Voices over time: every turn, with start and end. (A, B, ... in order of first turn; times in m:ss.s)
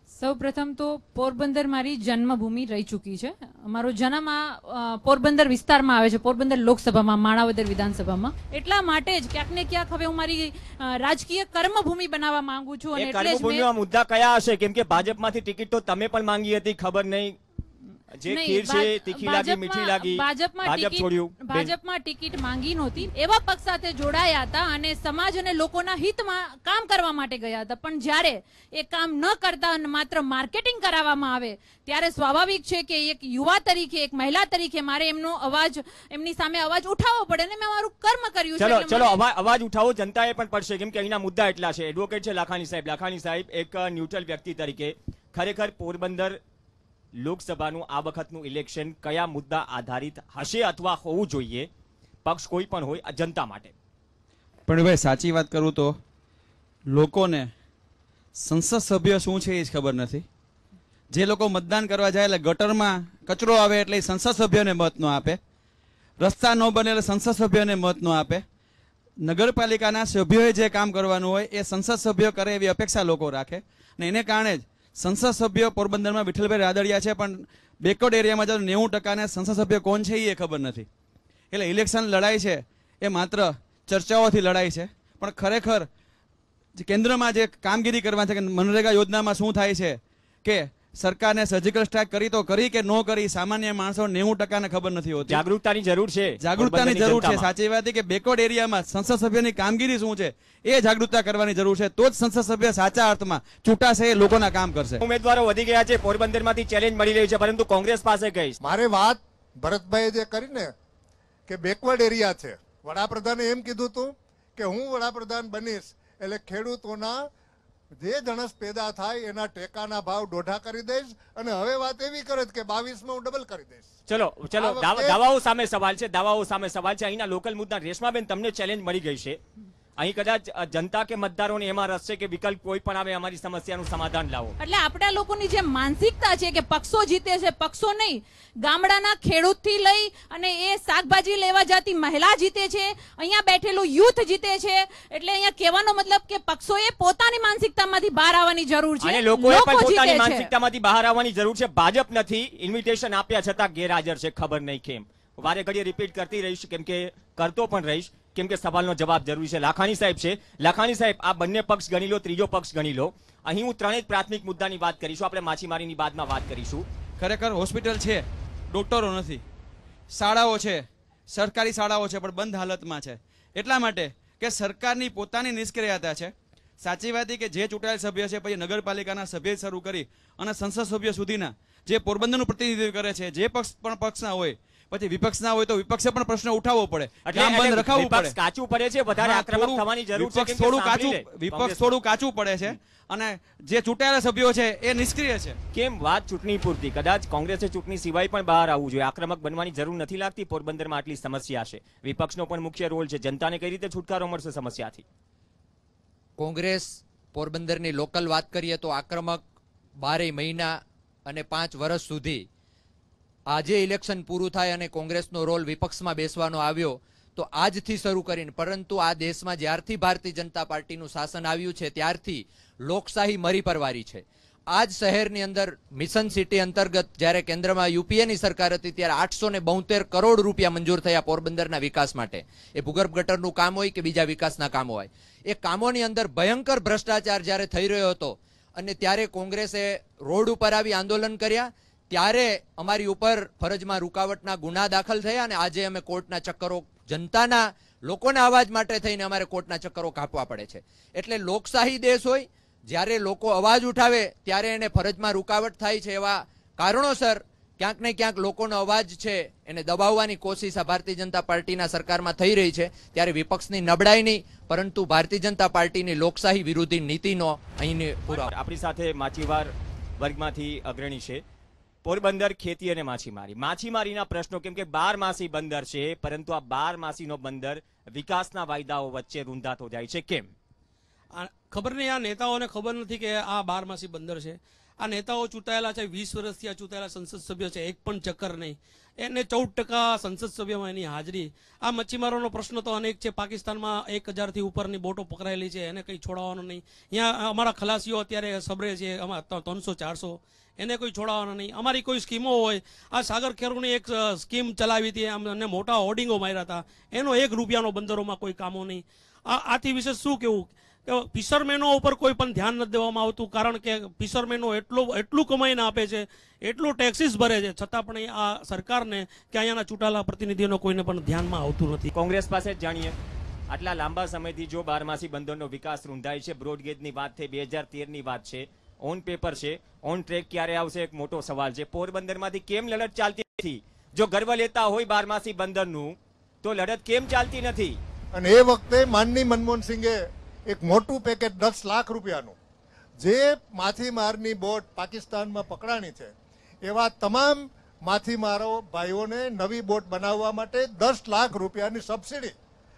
0:00.2-0:13.7 A
0:13.0-0:17.4 B
0:18.1-0:21.7 B
0:18.3-0:39.2 A
0:38.6-0:46.4 B
0:47.1-0:51.7 B
0:52.2-0:53.7 B
0:54.7-0:56.0 C
0:56.9-0:57.5 C
0:58.4-1:00.2 C
1:01.1-1:05.4 C
1:06.2-1:08.4 C
1:09.2-1:20.9 C
1:21.5-1:25.9 C
1:26.8-1:35.4 C
1:35.3-1:37.4 B
1:36.4-1:45.0 C
1:45.0-1:48.6 B
1:48.6-1:50.7 D
1:51.5-1:57.2 D
1:58.0-2:03.9 D
2:04.1-2:09.4 B
2:04.6-2:05.2 D
2:10.0-2:14.6 B
2:14.6-2:30.5 A
2:29.0-2:46.8 B
2:47.2-2:49.4 C
2:50.1-3:08.3 C
3:07.2-3:11.9 B
3:09.1-3:15.6 C
3:15.7-3:25.0 B
3:26.4-3:29.4 E
3:30.0-3:32.4 E
3:33.5-4:28.5 E
4:28.3-4:31.4 B
4:32.0-4:40.5 B
4:41.3-5:22.1 F
5:22.1-5:23.1 B
5:23.7-5:38.0 B
5:38.3-5:40.2 D
5:40.7-5:42.6 D
5:43.2-5:46.3 D
5:46.8-5:52.5 D